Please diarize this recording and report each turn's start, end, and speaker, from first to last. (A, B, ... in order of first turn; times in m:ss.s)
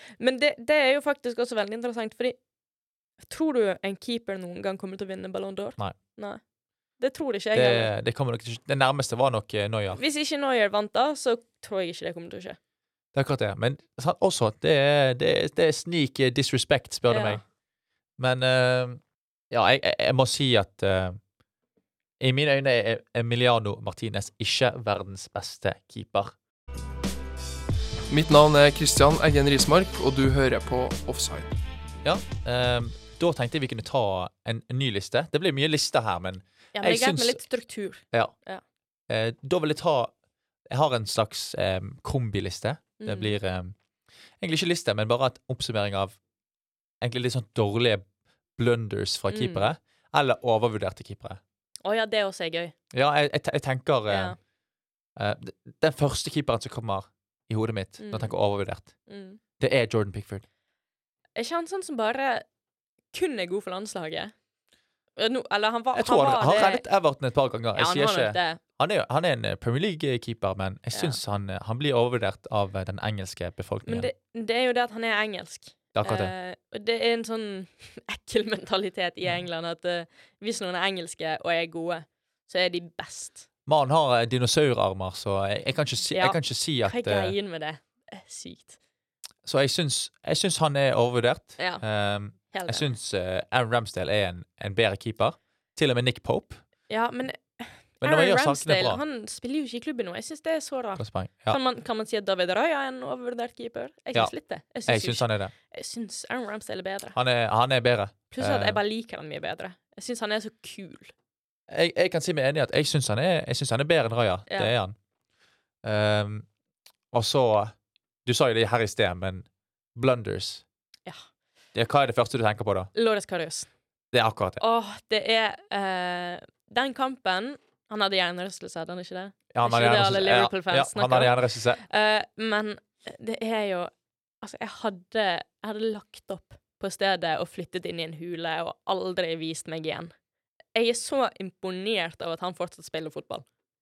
0:00.2-0:02.4 A
0:03.2-0:06.4 A
0:07.0-0:07.9 A
0:07.5-0:10.0 B
0:09.9-0:12.6 A
0:13.1-0:17.4 B
0:17.1-0:17.4 A
0:18.2-0:21.2 B
0:22.2-0:26.3 B
0:28.1-0:31.5 C
0:32.0-0:37.4 B
0:36.8-0:38.6 A
0:39.1-0:40.1 B
0:40.7-0:43.7 B
0:43.0-0:43.4 A
0:44.4-0:46.2 B
0:47.0-0:48.0 B
0:48.6-0:51.4 B
0:49.3-0:49.6 A
0:51.8-0:52.7 A
0:52.9-0:54.4 B
0:54.1-0:54.4 A
0:55.2-0:58.9 B
0:58.0-0:58.3 A
0:59.1-0:59.4 A
0:59.6-1:00.4 B
1:01.4-1:02.4 A
1:03.1-1:04.3 A
1:05.2-1:06.8 A
1:05.9-1:14.1 B
1:07.8-1:08.6 A
1:10.9-1:11.2 A
1:13.9-1:23.4 A
1:16.0-1:16.3 B
1:23.7-1:27.4 B
1:26.1-1:28.8 A
1:29.4-1:36.6 B
1:31.6-1:31.8 A
1:32.5-1:32.9 A
1:36.9-1:47.2 A
1:38.0-1:39.0 B
1:41.0-1:41.6 B
1:44.9-1:45.5 B
1:47.2-1:48.8 B
1:48.3-1:51.1 A
1:51.7-1:55.0 B
1:55.8-1:56.5 B
1:57.1-1:57.7 B
1:58.2-2:00.6 B
2:01.7-2:02.9 B
2:03.0-2:03.7 A
2:04.1-2:04.6 B
2:04.6-2:20.1 A
2:09.5-2:11.8 B
2:20.7-2:23.4 A